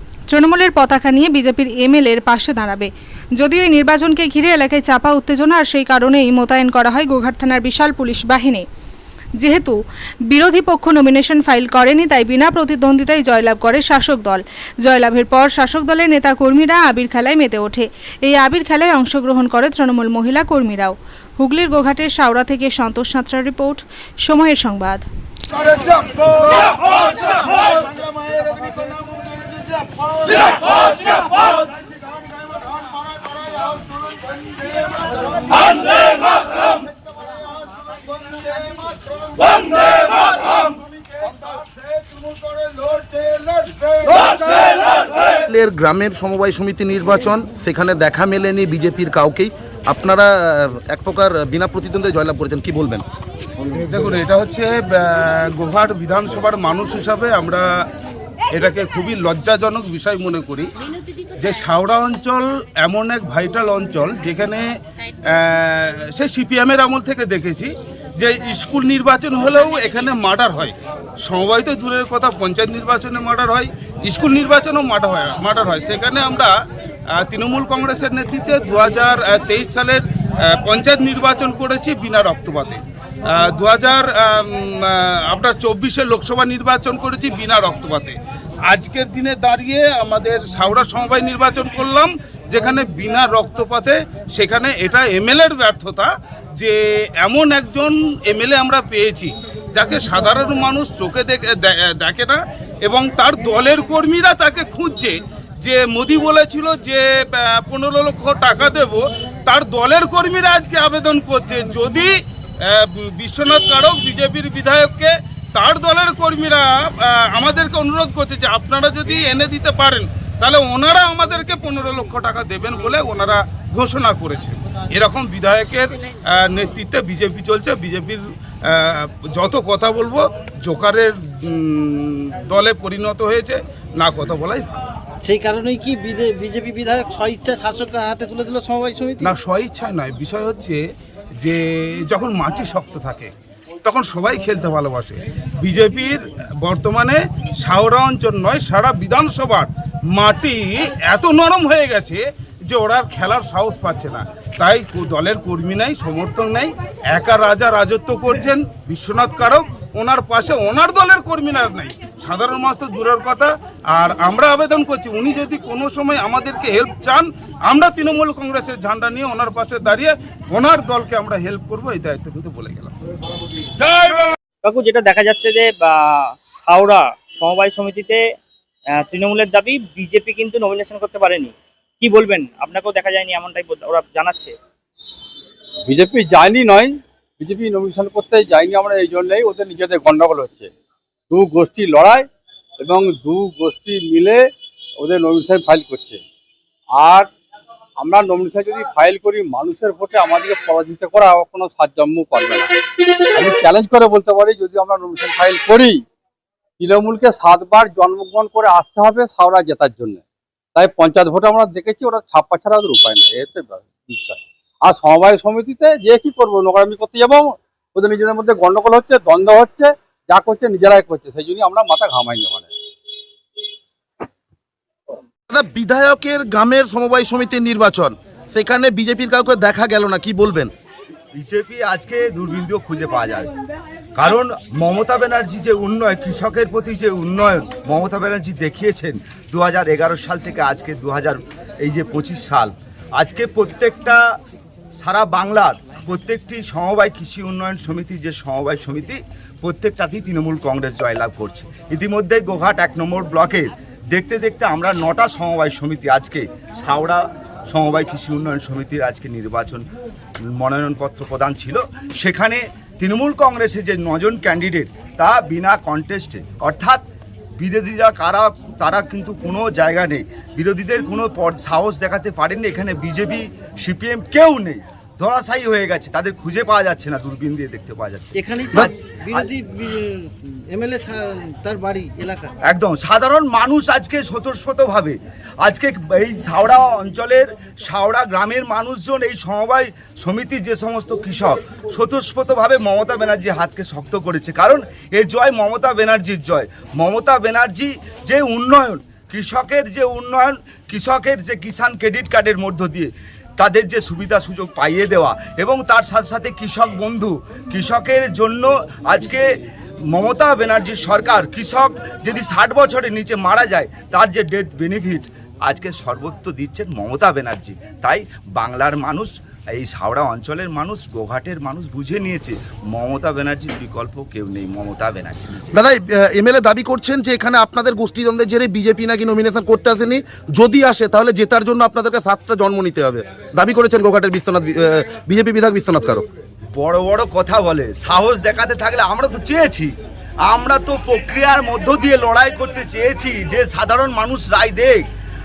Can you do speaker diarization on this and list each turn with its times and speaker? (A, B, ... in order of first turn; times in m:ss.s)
0:00.3-0:08.6 A
0:09.4-0:25.0 A
0:45.2-0:53.0 B
0:53.9-0:57.6 C
0:58.5-1:00.7 C
1:01.4-1:04.6 C
1:05.3-1:16.5 C
1:17.2-1:20.0 C
1:20.6-1:52.1 C
1:52.7-2:14.8 C
2:15.2-2:19.2 D
2:19.2-2:20.8 C
2:21.4-2:23.3 C
2:23.8-2:52.9 C
2:54.6-2:58.2 E
2:58.9-3:04.5 E
3:05.8-3:10.7 F
3:11.3-3:12.2 F
3:12.8-3:14.4 F
3:15.0-3:16.2 F
3:17.0-3:17.3 F
3:18.0-3:22.7 F
3:23.3-3:26.0 F
3:26.8-3:30.2 F
3:30.7-3:42.7 F
3:45.5-3:50.7 B
3:51.4-3:53.5 G
3:54.2-4:04.2 G
4:05.0-4:19.8 G
4:20.5-4:27.0 G
4:27.6-4:39.5 G
4:38.4-4:40.1 D
4:40.7-4:42.5 D
4:42.7-5:09.4 G
5:10.1-5:25.7 G
5:25.7-5:36.2 B
5:36.7-5:45.0 G